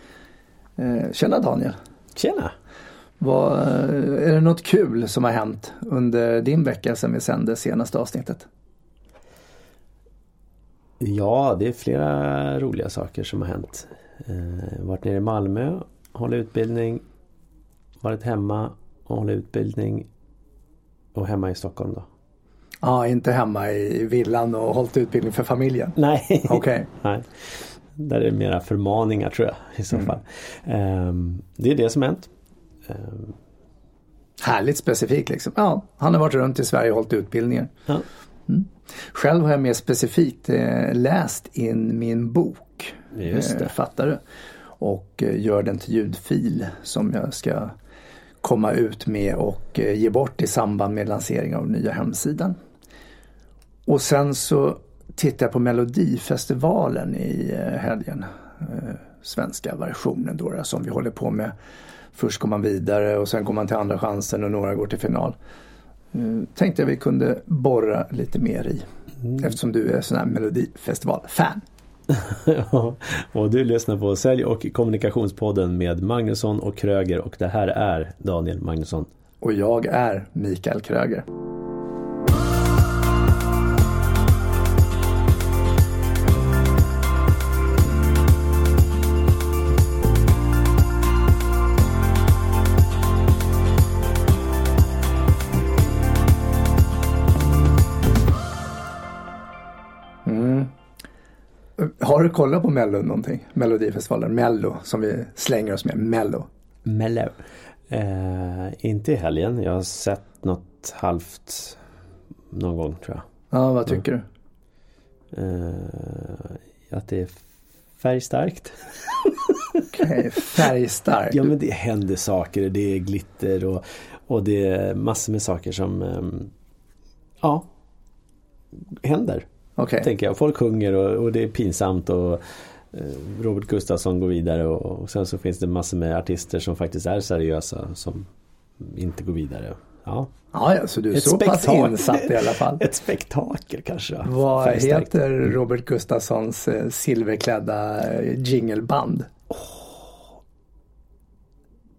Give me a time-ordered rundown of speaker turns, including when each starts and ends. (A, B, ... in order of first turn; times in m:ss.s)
0:00.8-0:01.8 A
0:02.2-0:02.5 B
0:03.2-0:08.4 A
0:11.0-0:17.0 B
0:18.0-0:20.1 B
0:21.1-0:22.1 B
0:22.8-0:25.9 A
0:26.0-0:32.3 B
0:26.4-0:26.9 A
0:32.8-0:33.4 B
0:34.4-0:37.7 A
0:38.5-0:44.2 A
0:43.1-0:43.7 B
0:44.8-0:47.7 A
0:48.4-0:52.6 A
0:53.9-1:01.5 A
1:02.1-1:05.3 A
1:06.1-1:08.8 A
1:09.4-1:11.6 A
1:12.1-1:19.1 B
1:19.4-1:21.2 A
1:40.2-1:40.7 A
1:41.8-1:46.5 A
1:46.8-1:51.8 B
1:52.5-1:53.2 B
1:53.5-1:54.2 A
1:55.3-1:57.4 B
1:58.0-1:59.8 B
1:59.9-2:01.4 A
2:01.3-2:06.5 B
2:07.4-2:07.7 B
2:08.9-2:09.4 B
2:09.8-2:10.1 A
2:10.0-2:18.3 B
2:18.8-2:20.3 B
2:20.5-2:22.8 A
2:21.1-2:25.1 B
2:24.2-2:29.3 A
2:29.5-2:29.9 B